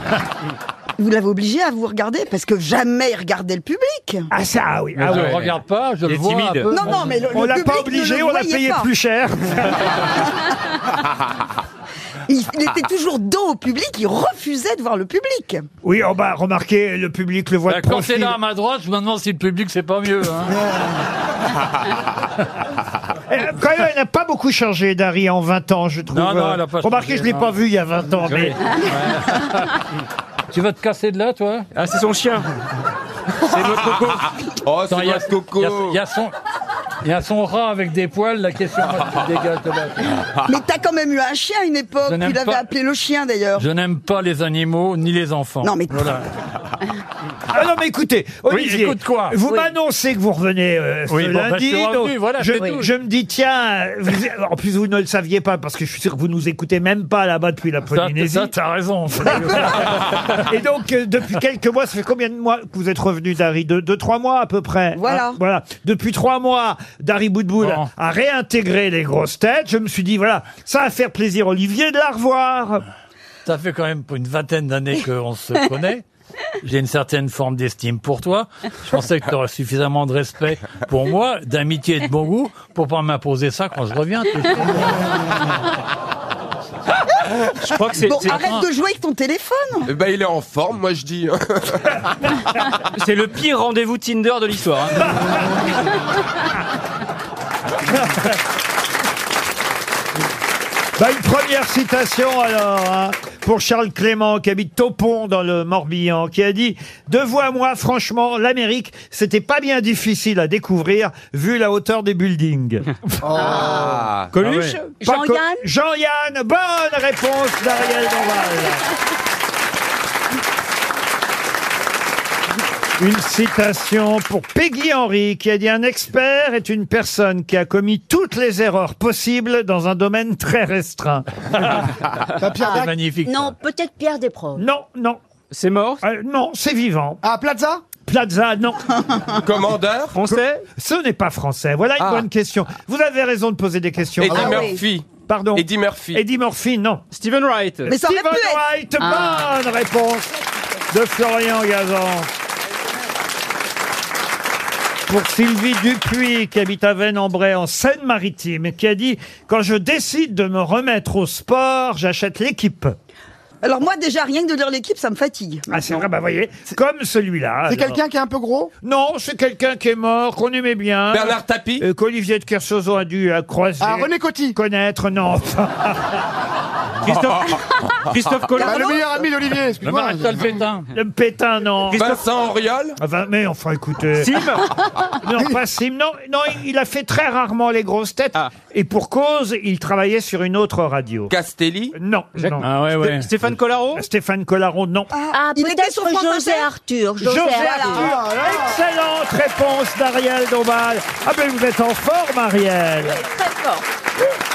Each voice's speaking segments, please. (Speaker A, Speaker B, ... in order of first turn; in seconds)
Speaker A: 1.0-4.3, 6.7-8.9, 12.3-15.7, 40.5-43.7, 45.6-46.1, 64.9-65.4, 88.0-89.9, 147.9-148.6, 163.6-166.1, 195.1-196.7, 197.5-198.2
Speaker B: 4.3-5.3, 7.3-9.9, 15.8-18.4, 23.3-28.5, 47.5-58.5, 59.1-72.8, 97.9-98.3, 101.0-112.9, 115.0-118.8, 123.0-131.3, 134.6-135.2, 136.0-137.2, 138.1-139.0, 140.2-144.7, 145.2-147.0, 147.9-150.3, 150.9-152.3, 155.1-162.9, 165.7-168.0, 168.8-176.2, 180.9-182.2, 183.0-184.6, 185.2-191.3, 191.9-192.6, 193.9-195.1, 197.2-203.2
Speaker C: 5.0-7.2, 17.7-20.7, 26.1-27.5, 28.3-29.7, 30.5-31.7, 34.9-36.3, 37.0-40.1, 42.0-42.6, 43.5-46.3, 48.5-49.4, 51.1-52.9, 57.9-60.3, 67.6-67.9, 73.5-76.0, 76.6-85.0, 88.3-88.6, 114.4-114.8, 132.6-133.5, 179.8-180.9, 192.6-193.3
Speaker D: 5.1-5.5, 6.0-6.7, 31.7-32.5, 33.4-34.3, 87.6-88.4, 93.0-95.3, 114.3-114.9, 135.5-136.0, 140.1-140.6, 147.1-147.9, 177.0-179.0, 181.9-182.2, 184.2-184.6, 192.4-194.0
Speaker E: 34.6-36.0, 89.9-92.0, 113.7-114.3, 139.4-140.2, 142.0-142.2, 144.2-146.2, 171.1-171.8, 181.9-183.0, 191.3-191.9
Speaker F: 113.2-114.1, 132.4-132.9, 137.2-137.8, 144.3-144.7, 167.7-168.7, 173.8-174.6, 178.6-180.6, 197.4-198.8
Speaker G: 113.3-114.0, 115.0-115.7, 132.6-134.7, 144.4-144.7, 149.0-149.5, 195.3-198.1, 203.1-203.8